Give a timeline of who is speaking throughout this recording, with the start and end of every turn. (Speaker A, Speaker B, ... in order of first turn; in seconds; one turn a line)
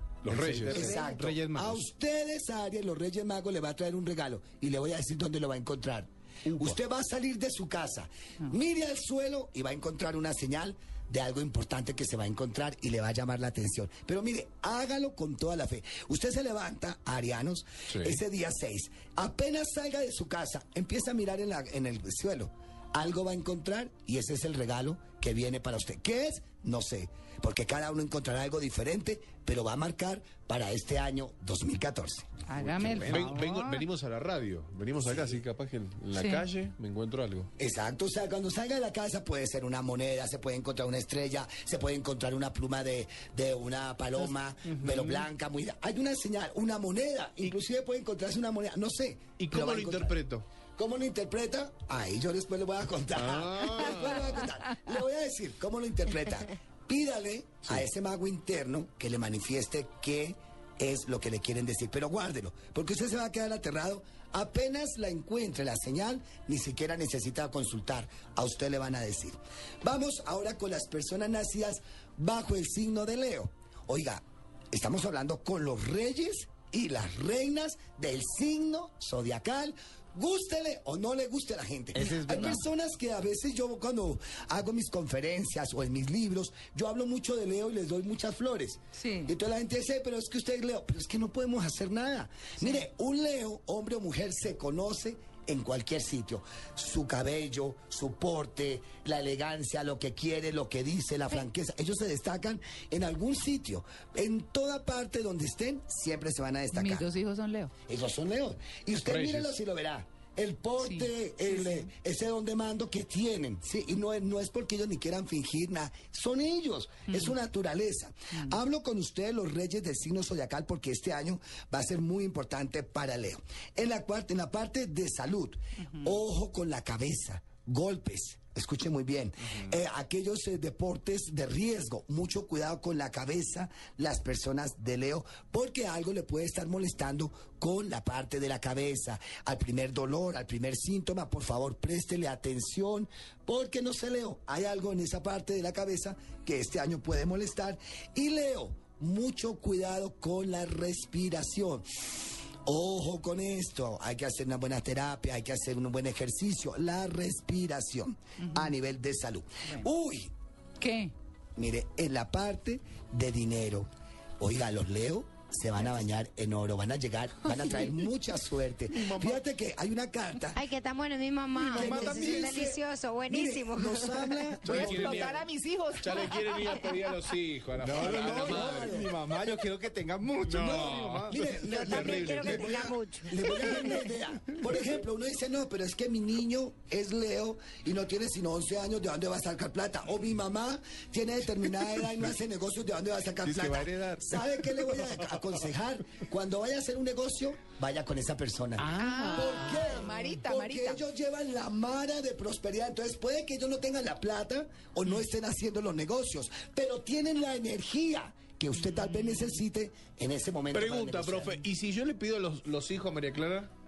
Speaker A: 0.2-0.9
Speaker B: 0.2-1.8
Speaker C: 0.7-32.2
Speaker D: 32.5-33.8
Speaker B: 32.6-33.3
Speaker A: 33.0-37.5
Speaker D: 36.1-36.4
Speaker C: 37.6-50.1
Speaker A: 49.4-50.4
Speaker C: 50.8-107.1
Speaker A: 53.1-54.3
Speaker B: 81.9-82.6
Speaker D: 88.9-89.3
Speaker D: 106.7-107.7
Speaker C: 107.9-151.8
Speaker A: 109.1-109.5
Speaker D: 110.8-111.9
Speaker C: 152.6-160.3
Speaker D: 160.8-161.1
Speaker C: 161.6-163.9
Speaker C: 164.4-170.6
Speaker A: 168.9-169.4
Speaker E: 170.5-174.5
Speaker B: 171.6-172.6
Speaker C: 171.7-175.4
Speaker A: 174.6-175.4
Speaker D: 174.6-176.6
Speaker A: 176.0-178.9
Speaker B: 177.8-182.8
Speaker C: 178.0-179.2
Speaker A: 180.4-182.2
Speaker C: 180.6-211.6
Speaker E: 181.7-183.8
Speaker B: 193.4-195.1
Speaker B: 198.8-199.8
Speaker D: 198.8-201.0
Speaker A: 210.7-213.7